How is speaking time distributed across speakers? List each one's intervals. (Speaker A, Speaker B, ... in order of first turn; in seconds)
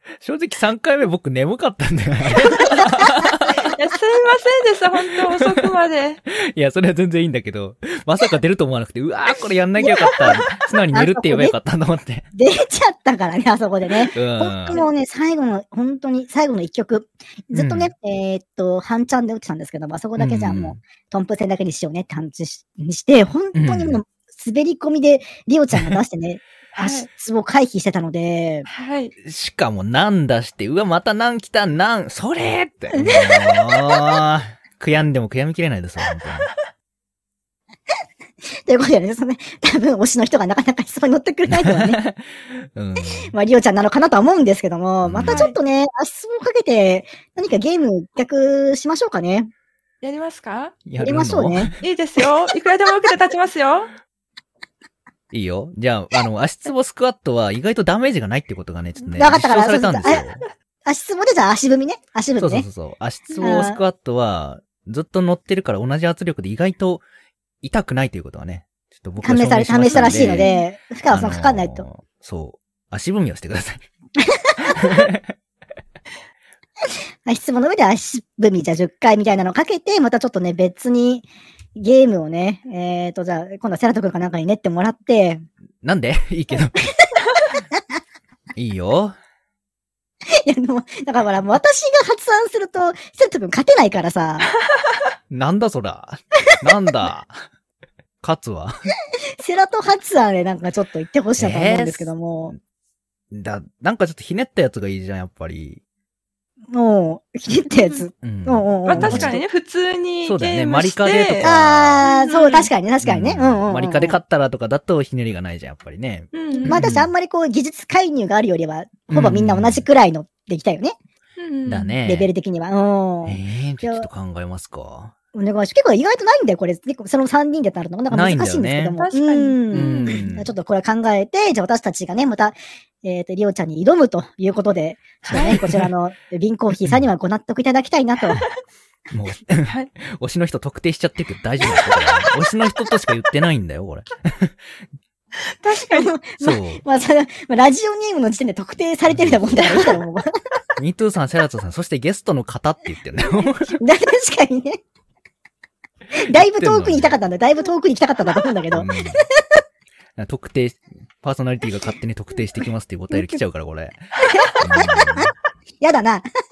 Speaker A: 0.2-3.7, 5.1-5.7, 6.2-12.2, 14.1-14.8, 17.5-17.9, 20.2-20.8, 23.5-24.0, 29.2-36.5, 41.5-43.3, 45.0-45.4, 50.9-51.8, 55.3-60.4, 62.4-67.0, 67.6-70.5, 71.1-73.8, 74.6-75.3, 85.8-86.9, 88.5-89.2, 95.3-97.3, 98.2-98.9, 101.4-102.6, 103.3-105.8, 108.2-109.4, 110.2-112.1, 113.0-117.1, 119.1-119.8, 121.7-122.3, 123.3-125.1, 128.1-129.0, 129.7-130.5, 135.3-135.9, 139.1-144.6, 146.4-146.8, 149.1-149.6, 150.8-153.8, 156.3-157.2, 158.7-159.2, 160.2-165.3
Speaker B: 3.6-6.2, 10.0-10.4, 26.7-27.1, 28.7-29.1, 45.3-45.5, 50.0-50.8, 51.8-53.9, 69.9-70.7, 108.8-111.5, 112.0-112.7, 116.3-116.9, 121.4-121.9, 129.0-130.3, 135.3-135.6, 141.7-142.2, 145.6-146.1, 149.6-149.9
Speaker C: 9.8-10.3, 10.9-11.5, 12.3-28.7, 32.9-33.9, 38.6-42.0, 43.2-49.5, 51.0-51.7, 59.1-60.2, 60.9-62.6, 63.4-63.8, 69.2-71.8, 74.3-74.9, 77.2-85.4, 90.3-94.5, 99.4-102.5, 106.7-109.4, 111.4-114.1, 116.6-120.9, 122.0-124.1, 125.3-138.4, 145.7-150.3, 153.7-154.8, 156.1-159.4, 163.1-163.4, 164.2-166.2